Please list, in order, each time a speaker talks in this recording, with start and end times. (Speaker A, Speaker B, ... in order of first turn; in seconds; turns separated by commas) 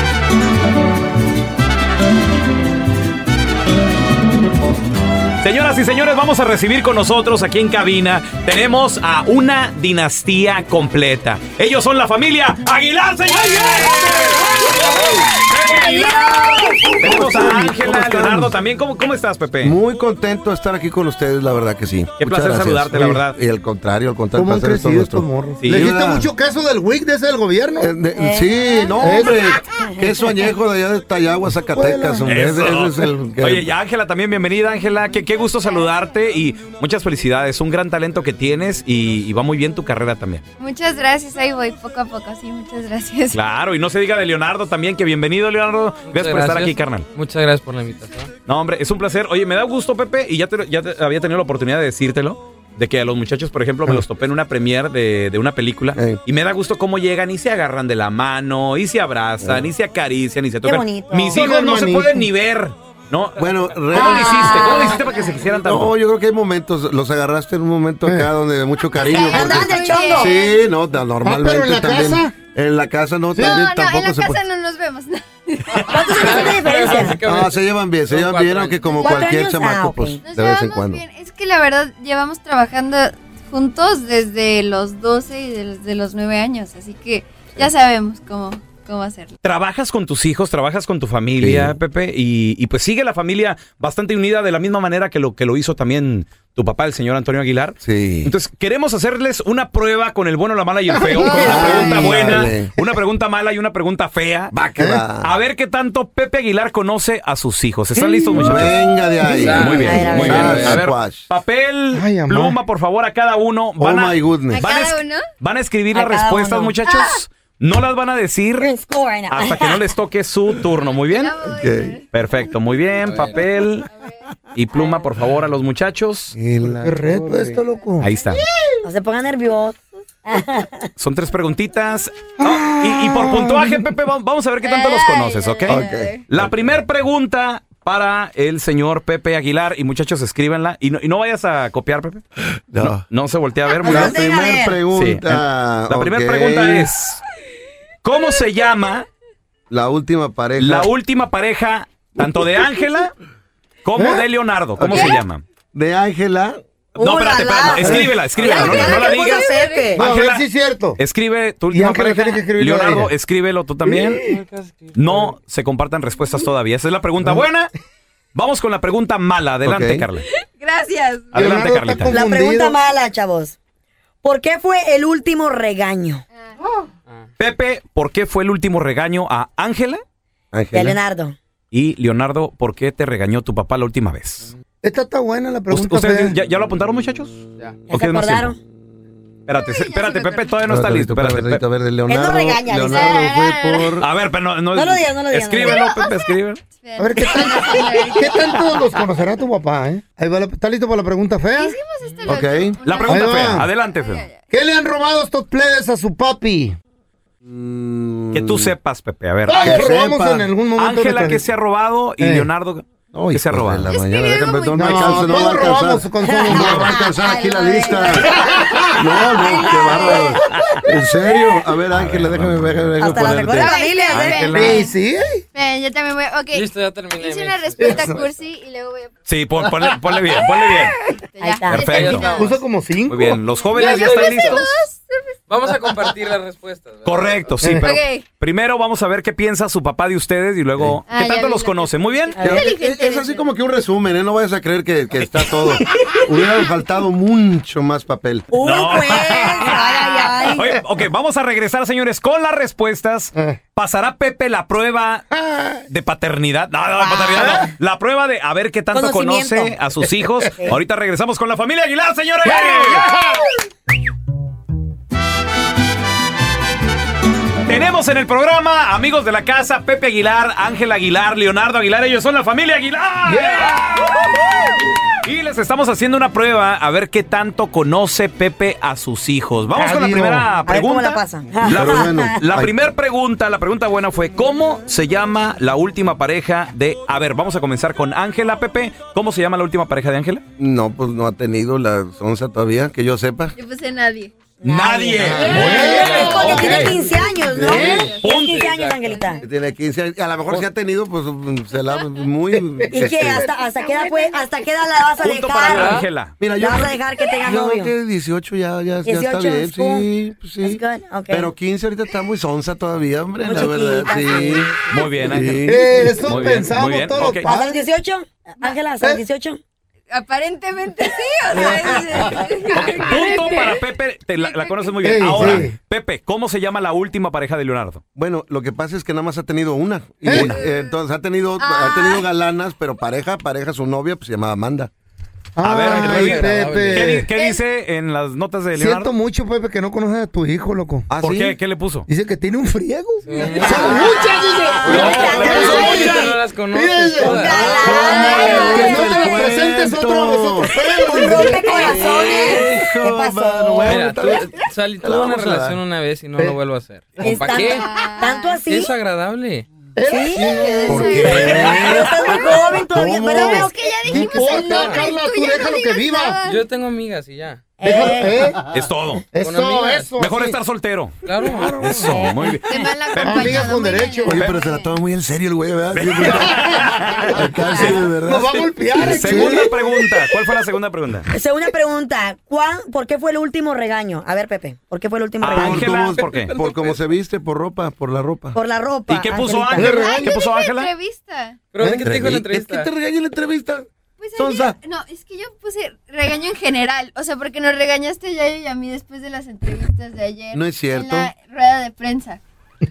Speaker A: 5.4-19.8, Speaker B: 14.8-15.2, Speaker B: 17.0-18.5, Speaker B: 19.6-26.3, Speaker A: 22.2-23.4, Speaker C: 24.4-27.9, Speaker A: 25.6-25.9, Speaker B: 27.8-33.7, Speaker D: 28.1-30.2, Speaker C: 29.0-29.5, Speaker C: 31.7-32.4, Speaker A: 32.2-40.4, Speaker E: 40.6-43.4, Speaker A: 43.3-47.1, Speaker F: 46.1-48.3, Speaker A: 48.5-65.9, Speaker B: 56.0-56.2, Speaker B: 59.4-59.7, Speaker D: 60.6-61.4, Speaker C: 61.3-62.3, Speaker B: 63.4-74.4, Speaker D: 64.0-64.8, Speaker C: 68.1-68.3, Speaker E: 69.0-70.7, Speaker D: 69.3-70.4, Speaker C: 71.2-72.3, Speaker C: 73.3-73.6, Speaker E: 73.5-76.3, Speaker D: 75.8-77.2, Speaker A: 75.8-76.3, Speaker F: 76.2-79.0, Speaker A: 76.8-77.1, Speaker B: 77.1-81.0, Speaker E: 78.9-79.4, Speaker D: 79.0-80.3, Speaker E: 80.3-89.4, Speaker A: 89.4-104.5, Speaker B: 91.4-91.8, Speaker B: 97.8-98.3, Speaker C: 100.9-102.5, Speaker D: 101.2-102.0, Speaker B: 101.2-102.8, Speaker B: 104.5-105.3, Speaker C: 104.8-105.0, Speaker A: 105.2-108.8, Speaker C: 108.0-108.7, Speaker B: 108.3-111.3, Speaker C: 109.2-109.9, Speaker F: 109.3-110.1, Speaker A: 109.4-118.7, Speaker D: 109.8-110.9, Speaker C: 111.9-112.6, Speaker B: 113.8-114.6, Speaker E: 114.5-115.3, Speaker D: 115.9-116.8, Speaker E: 116.8-117.2, Speaker D: 118.6-119.9, Speaker A: 119.3-121.3, Speaker E: 121.0-122.2, Speaker B: 121.5-122.0, Speaker A: 122.1-123.9, Speaker E: 122.8-124.2, Speaker F: 123.0-123.4, Speaker A: 124.5-126.3, Speaker D: 124.7-125.1, Speaker B: 126.3-127.6, Speaker C: 126.7-128.1, Speaker E: 127.7-128.2, Speaker A: 128.0-128.4, Speaker D: 128.8-130.9, Speaker A: 131.0-142.2, Speaker C: 132.6-133.7, Speaker E: 134.6-136.3, Speaker B: 135.7-136.8, Speaker B: 142.7-143.1, Speaker A: 142.8-144.3, Speaker B: 143.8-146.9, Speaker D: 143.9-144.2, Speaker A: 144.9-147.2, Speaker A: 148.0-149.1, Speaker B: 149.7-150.9, Speaker A: 150.6-153.1, Speaker A: 153.8-155.4, Speaker C: 154.0-154.3, Speaker B: 154.8-156.6, Speaker E: 154.9-155.2, Speaker D: 157.0-160.0, Speaker A: 157.0-164.2, Speaker C: 157.7-158.2, Speaker E: 158.8-160.1, Speaker C: 159.9-161.0, Speaker C: 161.7-163.1, Speaker C: 163.8-164.4, Speaker F: 164.3-165.3, Speaker A: 164.9-167.7, Speaker A: 168.3-170.3, Speaker B: 169.6-170.1, Speaker E: 170.2-171.5, Speaker C: 171.3-172.8, Speaker A: 171.4-172.2, Speaker D: 172.1-173.6, Speaker D: 174.2-176.2, Speaker A: 177.4-180.0, Speaker B: 180.5-181.0, Speaker D: 180.7-181.4, Speaker A: 181.7-184.5, Speaker C: 184.8-186.4, Speaker A: 185.7-188.6, Speaker D: 187.9-188.6, Speaker A: 189.5-191.7, Speaker E: 189.5-190.7, Speaker B: 190.7-194.1, Speaker D: 192.1-193.3, Speaker E: 192.9-194.0, Speaker A: 194.0-196.6, Speaker D: 194.7-195.8, Speaker E: 195.8-198.9, Speaker C: 197.0-201.8, Speaker E: 201.5-204.5, Speaker B: 202.3-202.8, Speaker A: 202.8-204.2, Speaker C: 203.1-203.7, Speaker C: 204.5-206.8, Speaker B: 207.4-208.7, Speaker A: 208.3-209.9, Speaker C: 209.4-211.5, Speaker B: 209.6-210.5, Speaker A: 210.7-213.9, Speaker C: 212.2-212.5, Speaker B: 213.1-218.3, Speaker E: 213.9-215.7, Speaker C: 214.8-217.0, Speaker D: 216.2-216.8, Speaker E: 216.8-220.2, Speaker C: 218.3-218.8, Speaker B: 219.0-223.7, Speaker D: 219.6-220.3, Speaker A: 221.9-222.9, Speaker D: 222.9-224.3, Speaker E: 223.6-225.0, Speaker A: 224.1-224.9, Speaker C: 224.5-225.4, Speaker E: 225.5-229.1, Speaker F: 226.5-228.4, Speaker C: 227.8-228.2, Speaker A: 229.3-231.0, Speaker E: 230.4-232.4, Speaker D: 231.4-231.9, Speaker F: 231.6-232.7, Speaker A: 231.7-232.3, Speaker C: 232.1-233.4, Speaker A: 233.1-234.8, Speaker E: 233.5-235.4, Speaker F: 233.7-234.7, Speaker F: 235.5-237.5, Speaker A: 237.0-242.3, Speaker C: 237.6-237.9, Speaker E: 237.9-238.3, Speaker E: 241.1-243.5, Speaker B: 242.4-248.5, Speaker D: 248.5-250.8, Speaker A: 248.6-255.3, Speaker C: 255.4-255.8, Speaker A: 255.9-263.1, Speaker D: 257.0-257.7, Speaker D: 258.9-259.8, Speaker C: 262.4-263.5, Speaker A: 267.7-274.7, Speaker C: 273.2-273.9, Speaker A: 275.2-290.4, Speaker C: 279.8-280.6, Speaker D: 280.6-282.4, Speaker B: 281.6-282.8, Speaker B: 290.6-293.6, Speaker E: 293.5-294.3, Speaker D: 294.6-299.4, Speaker A: 294.6-296.6, Speaker B: 295.3-295.8, Speaker C: 295.3-297.1, Speaker F: 295.4-297.2, Speaker E: 297.1-298.3, Speaker B: 297.4-298.2, Speaker C: 297.7-298.1, Speaker A: 298.2-298.6, Speaker F: 298.4-299.2, Speaker B: 299.4-303.5, Speaker D: 302.9-307.9, Speaker E: 303.6-304.7, Speaker A: 305.2-306.4, Speaker F: 305.7-306.1, Speaker B: 306.4-317.8, Speaker D: 309.1-310.1, Speaker D: 310.6-311.5, Speaker D: 313.4-315.1, Speaker A: 314.9-317.5, Speaker C: 315.6-317.7, Speaker D: 317.4-319.6, Speaker E: 320.1-325.1, Speaker A: 322.7-328.0, Speaker C: 325.0-325.8, Speaker B: 325.3-325.7, Speaker B: 328.1-334.9, Speaker C: 330.2-330.5, Speaker A: 330.3-330.6, Speaker E: 330.6-330.9, Speaker E: 331.6-332.3, Speaker C: 335.6-337.3, Speaker A: 335.6-339.1, Speaker F: 335.8-337.3, Speaker E: 337.3-337.6, Speaker C: 338.8-341.1, Speaker B: 341.1-341.6, Speaker A: 341.2-342.1, Speaker C: 342.1-352.0, Speaker F: 343.2-344.2, Speaker B: 343.4-345.2, Speaker D: 344.5-346.1, Speaker A: 344.9-346.4, Speaker F: 345.0-348.2, Speaker D: 347.1-349.3, Speaker B: 347.8-350.7, Speaker E: 348.3-349.5, Speaker E: 350.7-352.6, Speaker D: 351.0-354.0, Speaker B: 351.5-355.8, Speaker F: 353.8-357.9, Speaker E: 354.2-354.7, Speaker C: 357.2-357.4, Speaker D: 357.2-358.9, Speaker E: 357.8-358.9, Speaker F: 358.6-359.7, Speaker C: 360.0-362.1, Speaker D: 360.0-360.5, Speaker E: 360.4-366.7, Speaker B: 360.9-363.7, Speaker D: 361.2-363.9, Speaker A: 361.5-362.1, Speaker C: 363.2-363.5, Speaker F: 364.0-365.1, Speaker C: 364.1-366.4, Speaker F: 366.5-367.6, Speaker D: 367.8-368.5, Speaker C: 367.8-368.6, Speaker A: 368.7-369.3, Speaker C: 369.3-370.6, Speaker F: 369.4-370.2, Speaker A: 370.2-373.8, Speaker F: 371.2-371.8, Speaker C: 371.4-372.2, Speaker D: 372.0-373.0, Speaker E: 372.5-374.9, Speaker C: 373.2-374.4, Speaker B: 374.2-376.7, Speaker A: 375.9-378.0, Speaker C: 376.2-377.2, Speaker E: 377.3-378.0, Speaker B: 377.3-379.7, Speaker C: 377.8-379.7, Speaker A: 379.0-381.3, Speaker D: 381.3-385.9, Speaker A: 385.4-386.6, Speaker B: 385.6-388.6, Speaker F: 386.2-387.0, Speaker D: 388.6-390.2, Speaker A: 389.1-390.9, Speaker C: 389.8-390.4, Speaker E: 390.0-391.6, Speaker F: 391.7-392.9, Speaker C: 391.8-392.1, Speaker B: 392.0-394.8, Speaker E: 394.2-402.4, Speaker B: 400.5-401.3